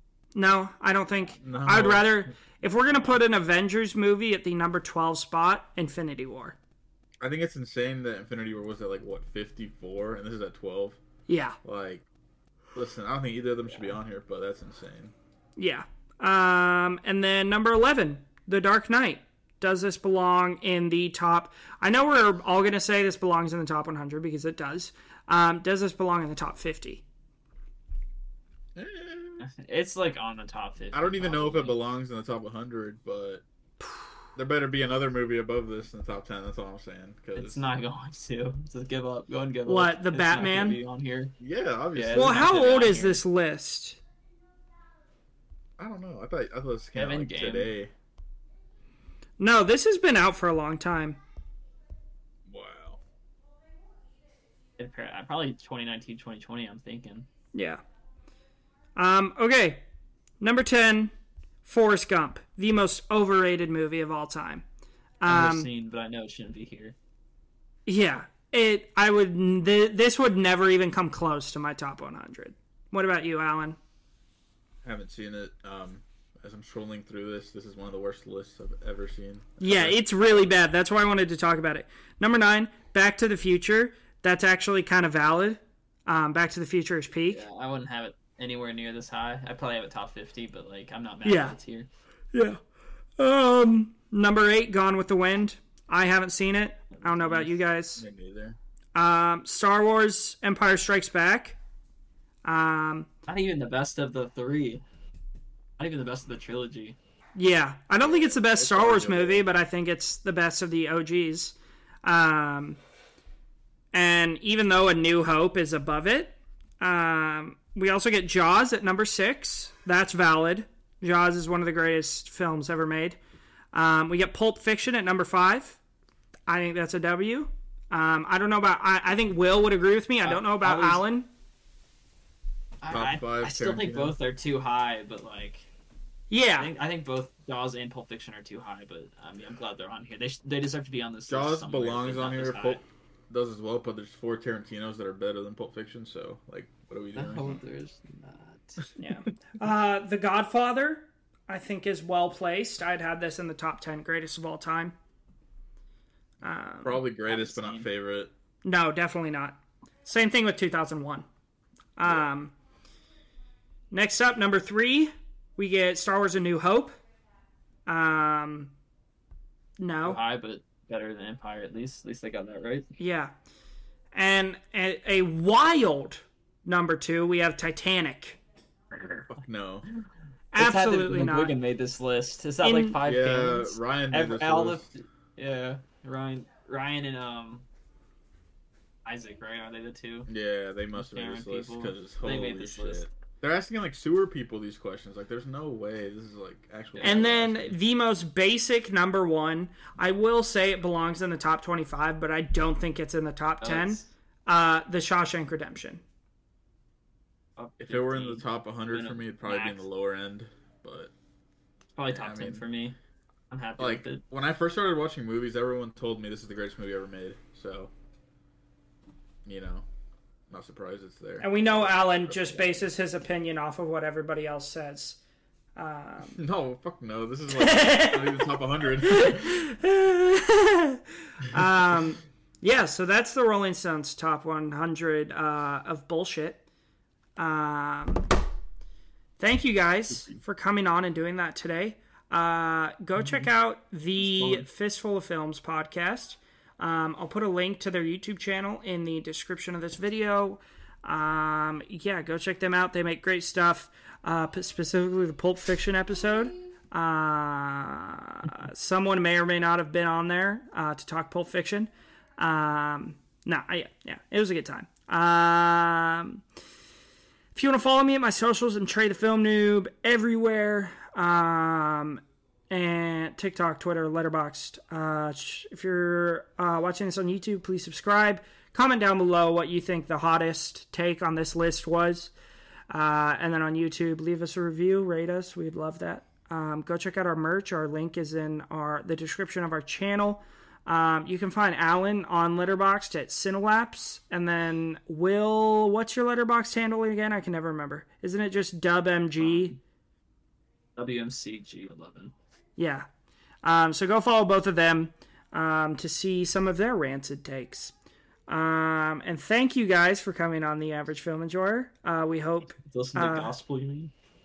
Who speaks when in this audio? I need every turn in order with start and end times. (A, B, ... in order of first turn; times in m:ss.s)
0:00.4-0:06.6 A
0:01.4-0:02.3 B
0:07.2-0:11.0 B
0:11.3-0:11.6 A
0:11.6-0:12.0 B
0:12.8-0:15.1 B
0:15.6-0:27.0 A
0:28.8-0:29.4 B
0:29.4-0:31.8 C
0:30.9-0:33.4 B
0:34.4-0:37.6 B
0:37.4-0:41.3 C
0:39.7-0:40.8 A
0:41.4-0:42.5 B
0:41.9-0:43.2 C
0:42.2-0:44.0 A
0:45.8-0:47.9 B
0:47.0-0:47.7 C
0:49.4-0:51.2 A
0:52.5-0:53.0 B
0:54.8-0:57.3 C
0:57.5-0:57.8 A
0:59.0-0:59.8 A
1:00.4-1:01.1 A
1:01.6-1:04.6 A
1:05.2-1:05.7 A
1:05.3-1:07.0 C
1:07.9-1:13.8 A
1:14.8-1:20.0 B
1:19.6-1:27.4 A
1:27.3-1:31.9 C
1:31.2-1:31.6 A
1:32.3-1:32.6 A
1:33.2-1:38.0 A
1:37.0-1:37.5 C
1:38.0-1:38.6 B
1:39.0-1:41.6 A
1:42.4-1:43.1 A
1:43.3-1:44.8 C
1:45.8-1:47.0 C
1:47.4-1:52.8 A
1:48.0-1:49.5 B
1:53.9-2:03.2 A
2:03.7-2:05.8 A
2:06.5-2:11.3 A
2:10.2-2:11.0 C
2:12.8-2:15.7 C
2:12.9-2:14.2 B
2:16.3-2:16.7 A
2:16.6-2:22.8 C
2:21.3-2:27.6 B
2:27.1-2:28.8 C
2:29.0-2:35.0 A
2:36.4-2:37.0 A
2:36.8-2:38.3 B
2:37.3-2:37.9 C
2:38.6-2:41.3 A
2:42.0-2:42.6 A
2:43.9-2:46.9 A
2:47.9-2:48.7 A
2:49.8-2:50.2 A
2:50.0-2:52.9 C
2:53.0-2:53.3 A
2:54.1-2:58.4 A
2:58.9-2:59.4 C
2:59.3-2:59.9 B
3:00.5-3:01.6 A
3:00.6-3:07.7 C
3:02.6-3:03.0 A
3:03.0-3:04.9 B
3:09.0-3:10.3 C
3:10.3-3:17.8 B
3:11.0-3:13.1 C
3:16.9-3:17.3 C
3:17.0-3:26.0 A
3:23.6-3:24.1 C
3:27.6-3:29.9 C
3:27.8-3:31.1 B
3:32.0-3:33.0 C
3:32.1-3:32.7 B
3:33.5-3:34.2 C
3:33.8-3:37.9 B
3:39.4-3:39.9 B
3:40.5-3:42.3 B
3:41.4-3:45.2 A
3:45.8-3:46.4 A
3:46.4-3:49.6 B
3:47.5-3:56.6 A
3:57.4-3:58.3 A
3:59.4-4:26.4 A
4:04.3-4:04.7 B
4:27.6-4:42.3 A
4:42.9-4:59.8 A
4:59.4-4:59.8 C
5:01.0-5:02.3 C
5:02.8-5:03.1 A
5:03.6-5:07.9 A
5:08.5-5:13.6 A
5:12.8-5:14.1 C